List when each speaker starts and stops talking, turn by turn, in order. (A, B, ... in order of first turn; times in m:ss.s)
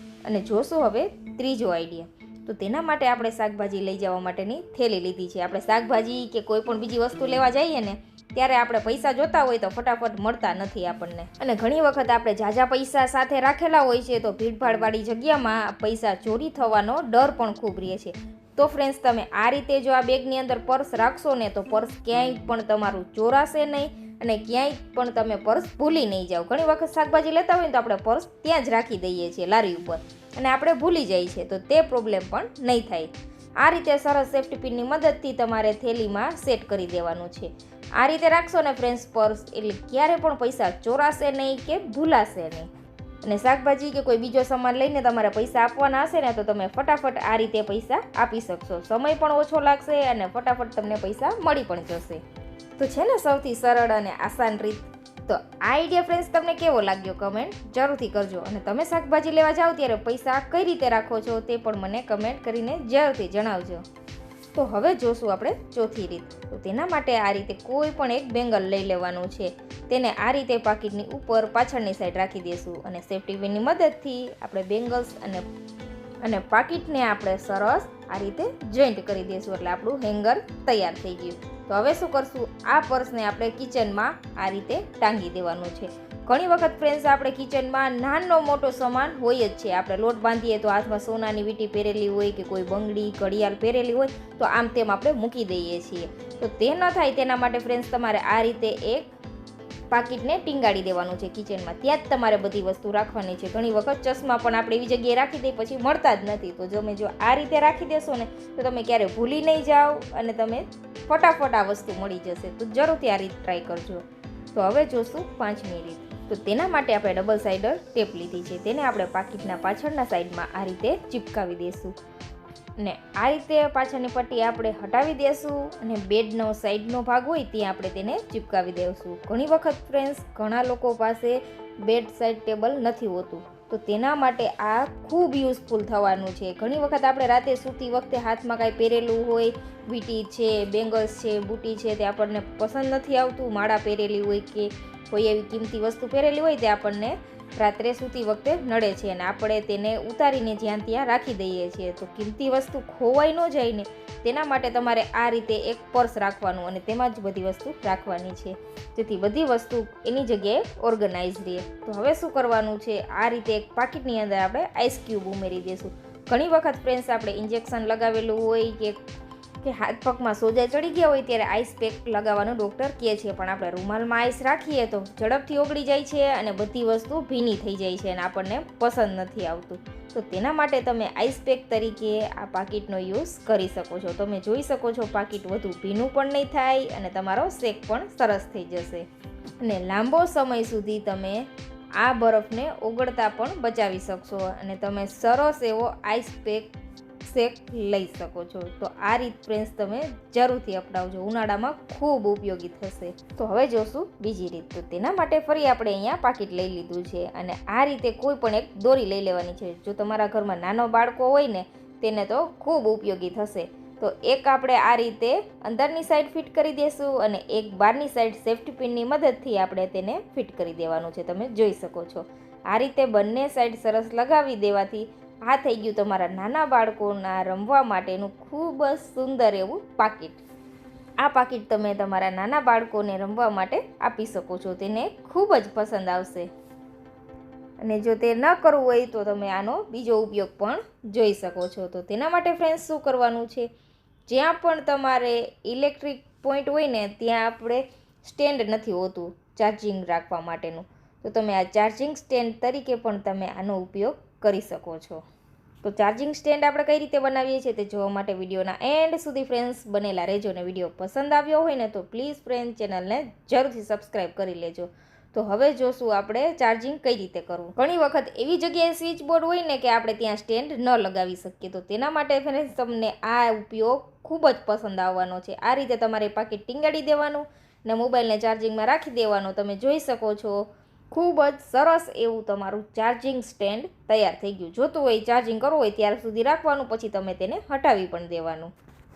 0:00.2-0:42.7 A
0:43.2-0:52.2 A
0:52.8-1:03.8 A
1:04.5-1:15.4 A
1:16.2-1:39.1 A
1:39.9-2:01.9 A
2:02.8-2:49.0 A
2:49.6-3:09.0 A
3:09.6-3:11.4 A
3:12.0-3:16.7 A
3:17.2-3:50.4 A
3:51.2-3:56.5 A
3:57.8-4:03.7 A
4:04.3-4:15.2 A
4:15.8-4:48.7 A